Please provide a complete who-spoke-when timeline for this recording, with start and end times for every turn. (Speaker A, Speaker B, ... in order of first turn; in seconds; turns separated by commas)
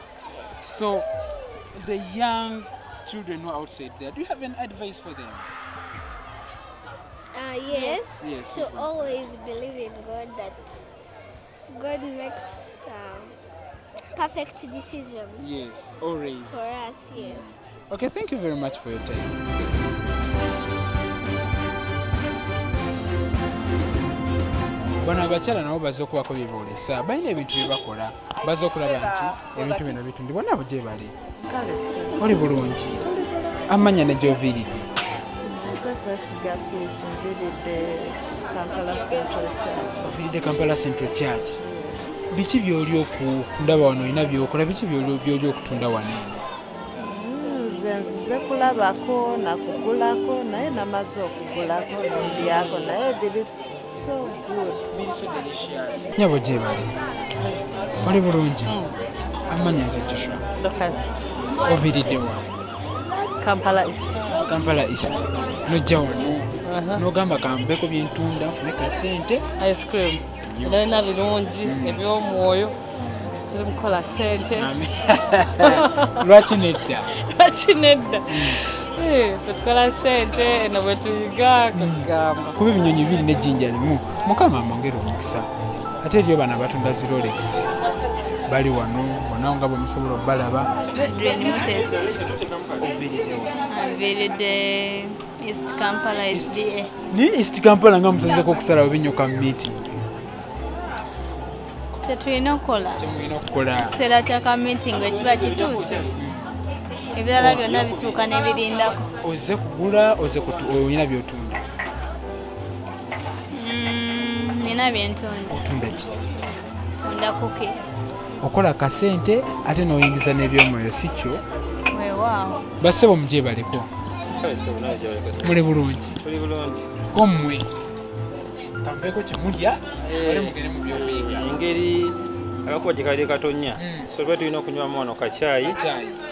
Speaker A: 0.6-1.1, Speaker A: 1.7-5.5, Speaker B: 7.3-10.9, Speaker C: 7.7-8.2, Speaker A: 8.2-9.2, Speaker B: 11.7-13.3, Speaker B: 14.1-15.5, Speaker A: 15.4-19.4, Speaker B: 16.5-17.7, Speaker A: 25.0-31.1, Speaker D: 31.4-32.3, Speaker A: 32.2-33.1, Speaker A: 33.7-34.9, Speaker D: 35.4-40.1, Speaker A: 40.0-41.6, Speaker D: 41.6-42.2, Speaker A: 42.3-46.5, Speaker D: 47.0-55.0, Speaker A: 54.9-56.9, Speaker A: 58.0-58.8, Speaker E: 58.6-58.9, Speaker A: 59.5-60.4, Speaker E: 60.6-61.1, Speaker A: 61.6-62.4, Speaker E: 63.4-64.2, Speaker A: 64.4-69.4, Speaker E: 66.7-67.0, Speaker E: 69.6-72.8, Speaker A: 70.5-70.8, Speaker A: 71.6-72.0, Speaker E: 73.4-74.7, Speaker A: 74.5-77.1, Speaker E: 75.6-76.1, Speaker E: 77.3-82.5, Speaker A: 78.3-78.6, Speaker A: 81.7-87.7, Speaker A: 88.5-90.8, Speaker C: 90.9-92.1, Speaker F: 91.9-92.9, Speaker A: 92.8-93.6, Speaker C: 93.7-96.9, Speaker A: 96.3-96.6, Speaker A: 97.1-99.8, Speaker C: 102.0-103.1, Speaker A: 103.0-104.0, Speaker C: 103.9-105.9, Speaker F: 105.0-106.1, Speaker A: 106.2-106.5, Speaker C: 107.2-109.1, Speaker A: 107.3-107.8, Speaker F: 107.8-108.1, Speaker A: 109.2-111.6, Speaker C: 113.5-115.6, Speaker A: 115.5-116.1, Speaker C: 117.0-117.9, Speaker A: 118.4-121.4, Speaker C: 121.9-122.6, Speaker A: 122.8-123.9, Speaker F: 124.4-125.5, Speaker A: 125.4-126.2, Speaker F: 126.2-126.9, Speaker A: 127.1-127.7, Speaker A: 128.8-131.4, Speaker F: 130.1-135.8, Speaker A: 133.8-134.1, Speaker A: 135.7-136.2